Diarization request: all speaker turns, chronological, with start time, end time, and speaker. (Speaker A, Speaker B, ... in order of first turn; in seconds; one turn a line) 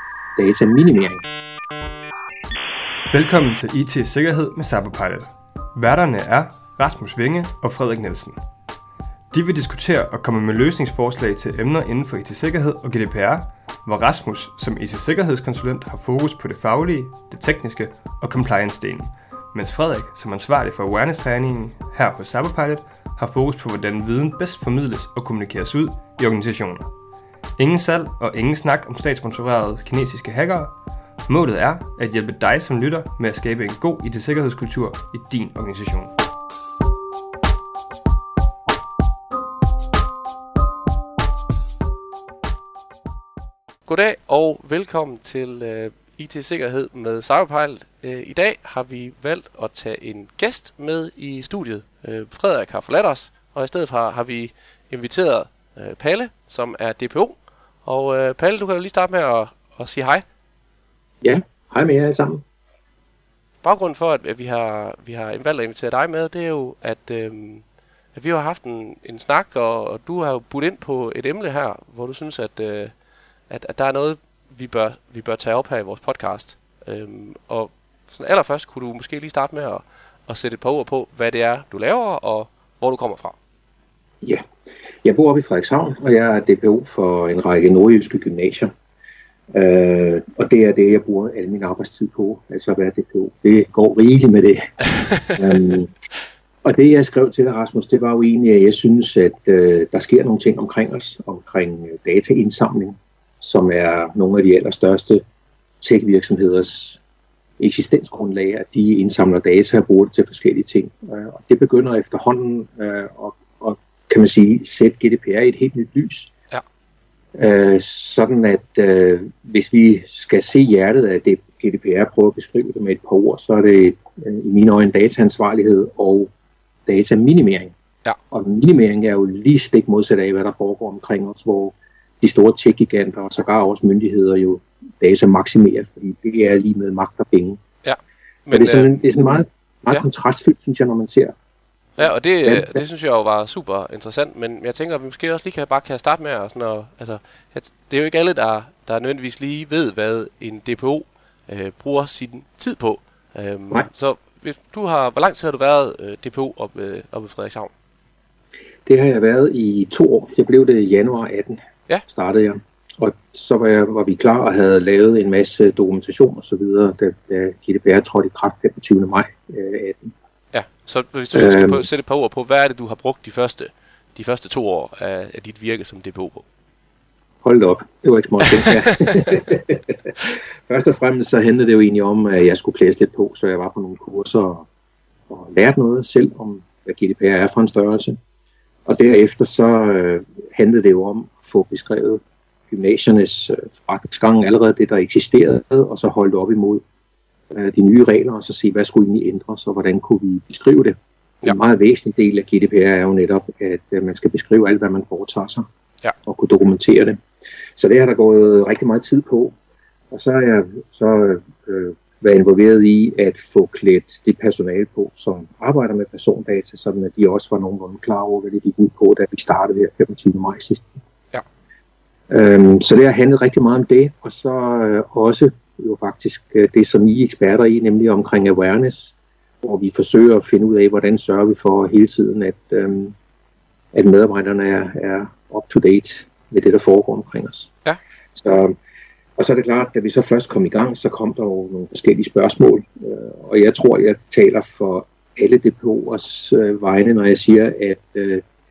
Speaker A: 0.4-1.2
Speaker B: 3.1-8.4
Speaker B: 9.3-26.9
Speaker B: 27.6-30.7
Speaker B: 31.3-36.1
Speaker C: 43.9-60.2
Speaker A: 61.2-62.4
Speaker C: 63.6-67.6
Speaker C: 68.1-72.9
Speaker C: 73.5-83.4
Speaker A: 85.0-88.7
Speaker A: 89.5-95.9
Speaker C: 94.9-95.4
Speaker A: 96.6-105.2
Speaker A: 105.8-107.0
Speaker A: 107.6-116.3
Speaker A: 117.4-126.3
Speaker A: 126.9-127.7
Speaker A: 128.3-137.6
Speaker C: 137.8-139.0
Speaker A: 138.5-141.3
Speaker C: 142.0-157.7
Speaker A: 142.4-142.8
Speaker A: 158.8-170.1
Speaker C: 170.5-176.4
Speaker A: 171.3-171.8
Speaker A: 177.4-184.7
Speaker C: 179.1-179.3
Speaker A: 185.3-188.2
Speaker A: 188.9-196.8
Speaker A: 197.5-205.7
Speaker A: 206.2-207.2
Speaker A: 207.8-209.5
Speaker A: 210.1-221.0
Speaker A: 222.3-233.1
Speaker A: 233.9-237.7
Speaker A: 238.4-238.7
Speaker A: 239.4-248.4